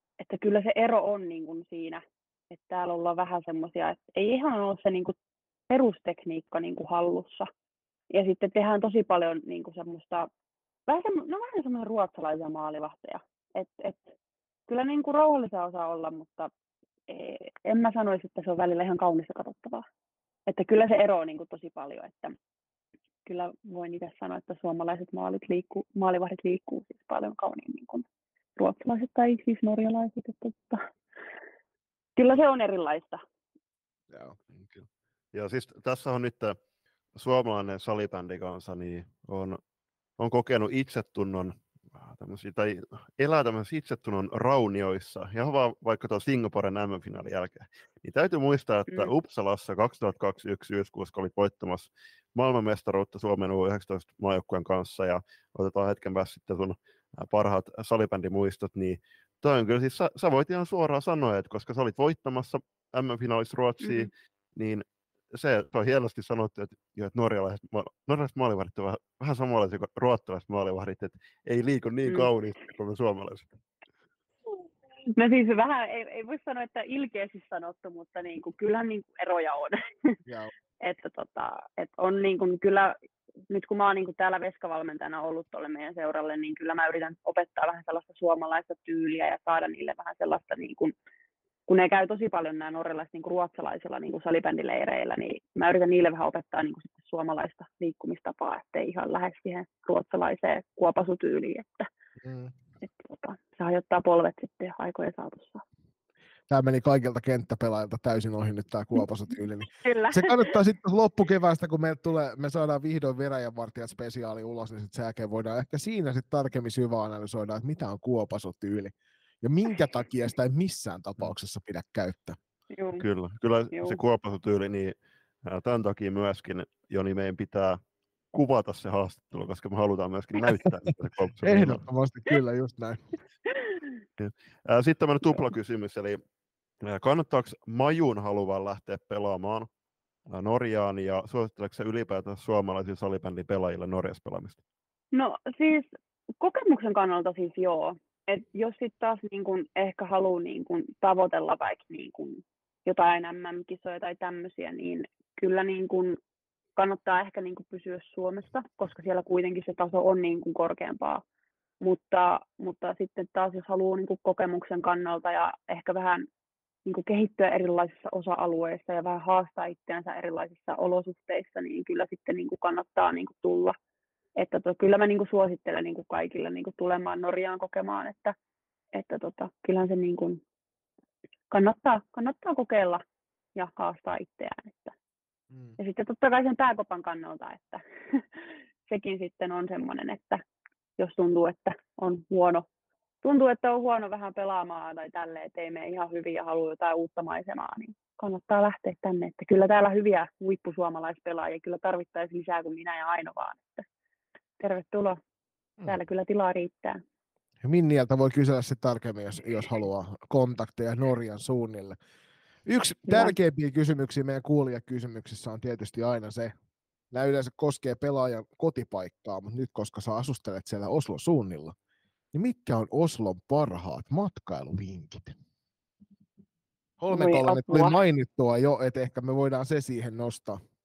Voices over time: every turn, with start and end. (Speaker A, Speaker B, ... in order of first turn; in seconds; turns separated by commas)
Speaker A: 0.2-5.1, Speaker A: 5.7-7.5, Speaker A: 8.1-10.3, Speaker A: 10.9-14.1, Speaker A: 14.7-16.5, Speaker A: 17.1-19.8, Speaker A: 20.5-22.4, Speaker A: 23.2-28.0, Speaker A: 28.6-30.9, Speaker A: 32.1-33.2, Speaker B: 34.7-36.6, Speaker B: 37.1-39.6, Speaker B: 40.2-73.5, Speaker A: 63.8-64.1, Speaker A: 75.2-80.2, Speaker C: 80.2-80.5, Speaker A: 80.8-83.0, Speaker A: 83.5-90.9, Speaker A: 91.7-101.9, Speaker C: 102.2-102.5, Speaker A: 102.8-105.6, Speaker C: 106.5-122.4, Speaker A: 109.7-110.5, Speaker A: 122.7-123.0, Speaker B: 123.0-127.8, Speaker A: 123.7-124.0, Speaker B: 128.3-131.8, Speaker C: 131.4-133.0, Speaker B: 134.2-136.2, Speaker B: 136.8-139.7, Speaker B: 140.3-144.6, Speaker A: 145.1-145.9, Speaker A: 146.4-156.2, Speaker A: 156.8-161.2, Speaker A: 161.8-166.3, Speaker A: 166.8-173.8, Speaker A: 174.4-178.3, Speaker A: 178.9-180.4, Speaker A: 181.5-183.0, Speaker A: 183.6-184.9, Speaker C: 185.5-185.8, Speaker A: 185.8-190.4, Speaker A: 191.0-192.7, Speaker A: 193.2-203.8, Speaker A: 204.6-205.2, Speaker A: 205.9-207.0, Speaker C: 207.6-212.0, Speaker C: 212.7-216.5, Speaker A: 213.1-213.3, Speaker C: 217.1-221.7, Speaker C: 222.3-225.3, Speaker C: 227.0-230.6, Speaker A: 227.1-227.9